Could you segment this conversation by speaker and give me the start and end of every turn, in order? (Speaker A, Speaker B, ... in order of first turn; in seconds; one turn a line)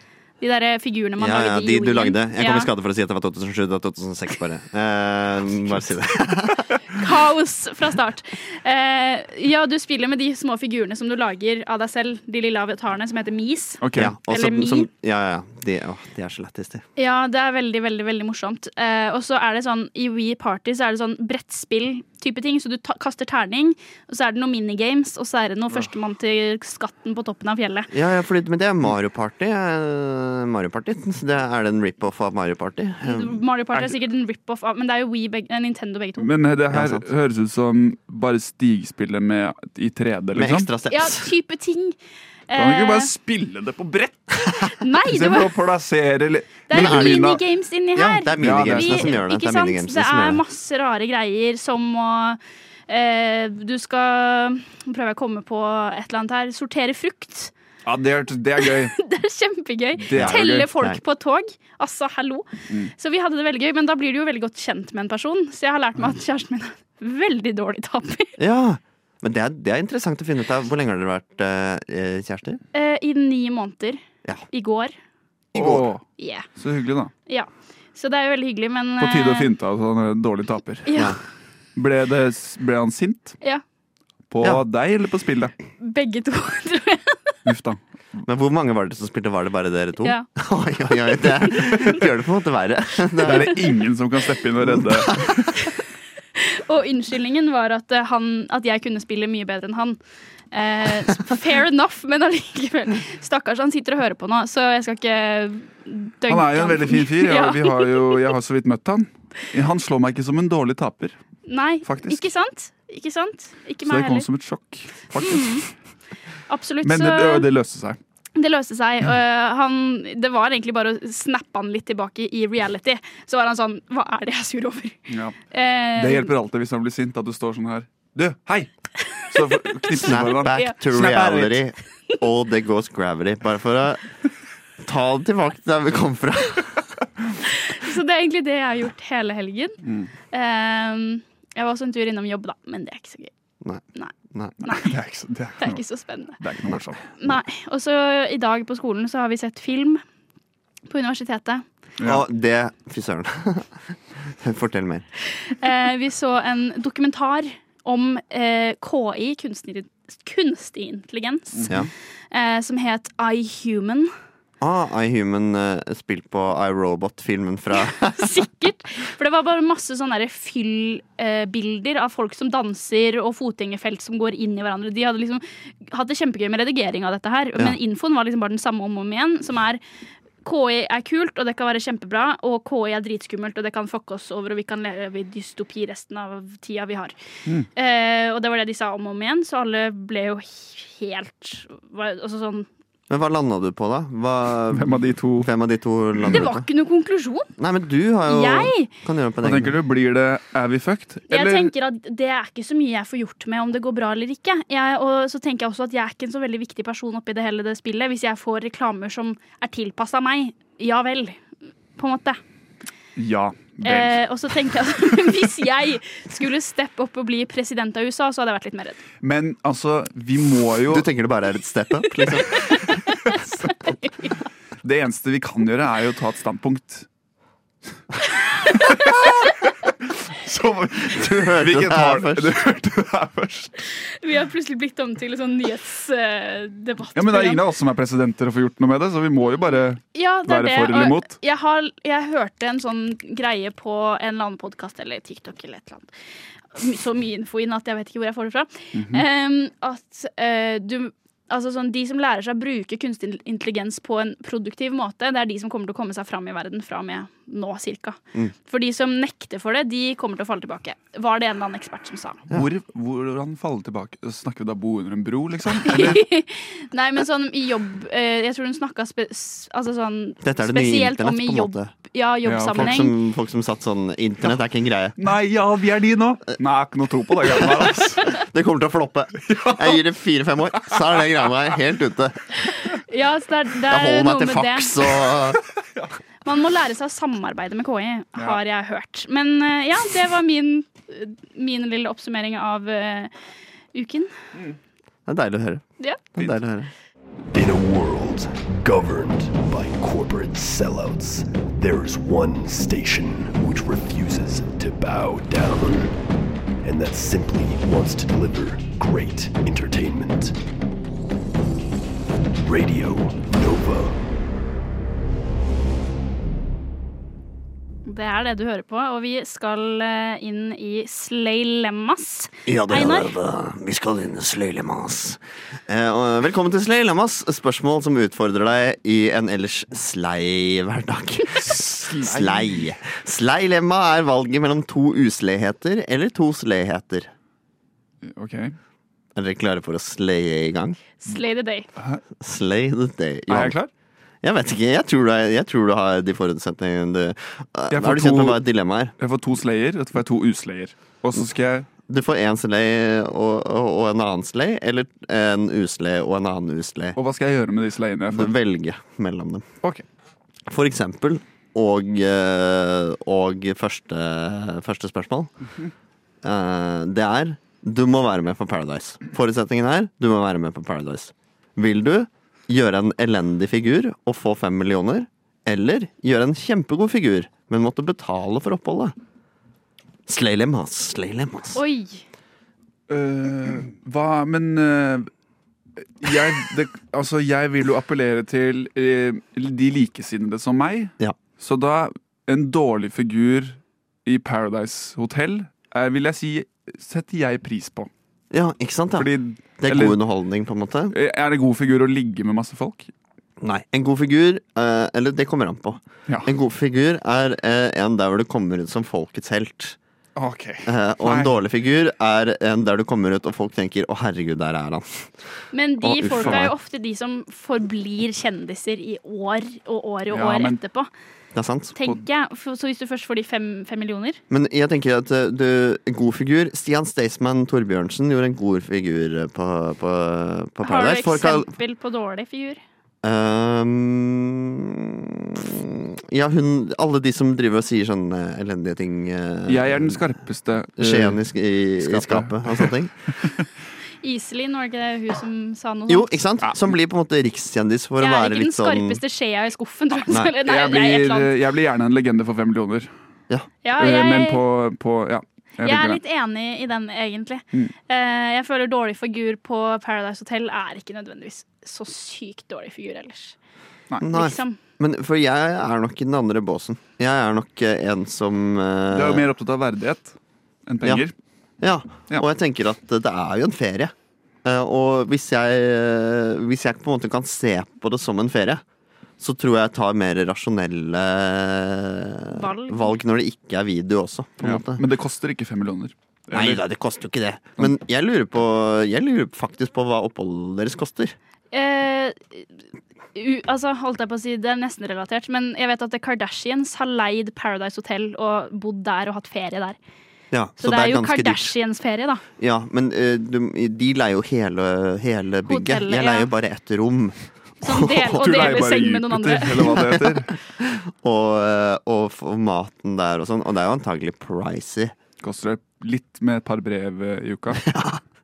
Speaker A: 0.4-2.7
Speaker B: 1.2-6.8
Speaker A: 6.9-14.9
Speaker C: 13.8-14.1
Speaker B: 13.9-16.8
Speaker A: 17.0-27.9
Speaker B: 27.9-33.3
Speaker A: 33.0-36.3
Speaker C: 36.2-40.7
Speaker B: 36.7-37.0
Speaker B: 40.3-41.3
Speaker A: 40.9-42.0
Speaker A: 42.5-43.1
Speaker C: 42.5-47.4
Speaker A: 44.8-45.5
Speaker A: 46.7-57.5
Speaker B: 46.7-47.4
Speaker B: 47.9-50.4
Speaker C: 48.4-49.1
Speaker C: 57.8-59.0
Speaker A: 58.6-68.4
Speaker C: 60.0-60.7
Speaker B: 60.1-61.0
Speaker B: 68.4-72.6
Speaker A: 72.7-74.0
Speaker A: 74.5-74.9
Speaker B: 75.5-75.9
Speaker C: 75.5-76.0
Speaker A: 76.2-76.5
Speaker C: 76.5-77.1
Speaker A: 77.3-79.5
Speaker C: 79.0-81.0
Speaker A: 80.8-81.1
Speaker C: 81.8-83.3
Speaker C: 84.3-85.5
Speaker A: 85.8-87.3
Speaker C: 87.4-87.8
Speaker B: 88.2-93.6
Speaker A: 91.4-92.0
Speaker C: 93.2-95.5
Speaker B: 94.7-95.3
Speaker A: 96.3-100.0
Speaker A: 100.5-108.3
Speaker C: 106.3-111.2
Speaker A: 111.5-114.2
Speaker C: 111.8-112.2
Speaker C: 113.8-115.7
Speaker A: 115.2-115.6
Speaker A: 116.5-117.5
Speaker C: 116.8-118.0
Speaker A: 118.3-125.0
Speaker C: 125.1-125.3
Speaker A: 125.5-126.3
Speaker C: 126.0-131.6
Speaker A: 129.0-130.8
Speaker B: 130.0-134.0
Speaker B: 134.8-136.8
Speaker A: 137.5-139.8
Speaker C: 139.8-140.1
Speaker A: 140.3-143.3
Speaker B: 143.6-144.5
Speaker A: 144.6-144.9
Speaker C: 144.7-145.8
Speaker A: 145.6-146.4
Speaker C: 146.4-147.0
Speaker A: 147.2-150.0
Speaker A: 150.9-151.6
Speaker C: 152.0-152.2
Speaker B: 152.0-155.1
Speaker A: 155.4-161.7
Speaker C: 161.5-161.9
Speaker A: 162.3-164.1
Speaker B: 164.6-168.3
Speaker A: 167.8-179.8
Speaker A: 180.4-187.1
Speaker A: 187.7-192.7
Speaker B: 193.1-196.7
Speaker C: 194.7-195.5
Speaker A: 196.3-197.5
Speaker B: 197.6-199.7
Speaker A: 198.2-198.9
Speaker C: 199.4-201.7
Speaker A: 201.3-211.4
Speaker A: 211.9-212.4
Speaker C: 213.2-214.2
Speaker A: 213.8-219.0
Speaker C: 219.2-221.1
Speaker B: 220.9-222.8
Speaker A: 222.5-224.3
Speaker C: 224.8-227.1
Speaker C: 228.6-233.8
Speaker B: 231.0-232.5
Speaker A: 234.1-237.6
Speaker C: 237.1-241.3
Speaker A: 240.1-246.1
Speaker A: 246.7-262.4
Speaker C: 248.9-249.2
Speaker C: 262.5-266.3
Speaker A: 265.8-273.1
Speaker B: 270.4-271.9
Speaker C: 272.4-273.0
Speaker B: 272.7-275.2
Speaker C: 275.2-278.3
Speaker B: 277.6-282.4
Speaker C: 279.4-280.0
Speaker A: 282.8-285.1
Speaker B: 283.9-285.6
Speaker A: 286.4-293.3
Speaker A: 293.9-294.3
Speaker B: 295.2-296.9
Speaker D: 297.5-306.2
Speaker D: 306.8-310.6
Speaker D: 312.6-314.2
Speaker A: 318.0-323.3
Speaker B: 322.6-337.3
Speaker C: 331.6-332.9
Speaker C: 338.2-338.8
Speaker B: 339.3-341.0
Speaker A: 341.2-341.9
Speaker C: 341.9-342.2
Speaker B: 342.4-343.8
Speaker C: 343.5-343.9
Speaker B: 344.4-349.1
Speaker C: 347.9-348.6
Speaker C: 349.2-351.9
Speaker B: 352.1-357.2
Speaker C: 357.1-358.5
Speaker B: 358.3-359.6
Speaker B: 360.7-365.5
Speaker B: 366.4-379.1
Speaker B: 380.2-381.8
Speaker A: 381.7-382.2
Speaker C: 383.1-385.3
Speaker C: 386.2-398.1
Speaker B: 398.5-401.1
Speaker C: 399.1-400.2
Speaker C: 401.1-403.1
Speaker B: 403.6-410.0
Speaker C: 410.4-411.5
Speaker B: 410.8-415.3
Speaker A: 415.7-421.1
Speaker B: 416.0-416.7
Speaker C: 416.4-416.6
Speaker C: 420.3-420.8
Speaker B: 421.5-421.9
Speaker A: 421.9-424.4
Speaker B: 424.5-431.7
Speaker A: 430.8-432.8
Speaker B: 433.2-440.2
Speaker C: 439.7-441.4
Speaker B: 441.0-443.1
Speaker C: 442.0-443.5
Speaker A: 444.2-446.3
Speaker B: 446.1-449.2
Speaker A: 448.2-451.5
Speaker C: 450.6-453.1
Speaker A: 453.8-454.6
Speaker C: 454.0-456.2
Speaker A: 455.8-463.6
Speaker B: 464.2-469.4
Speaker A: 464.3-464.8
Speaker C: 469.1-470.4
Speaker C: 470.9-471.3
Speaker B: 471.8-474.1
Speaker B: 474.6-478.8
Speaker B: 479.4-485.0
Speaker A: 482.5-483.2
Speaker C: 484.6-486.8
Speaker B: 486.5-491.4
Speaker A: 491.7-492.6
Speaker A: 493.3-500.0
Speaker B: 500.5-501.7
Speaker A: 500.8-502.4
Speaker B: 502.6-508.8
Speaker A: 505.6-506.5
Speaker A: 507.8-509.9
Speaker C: 508.3-510.5
Speaker B: 509.9-515.1
Speaker C: 515.4-517.9
Speaker B: 517.8-518.2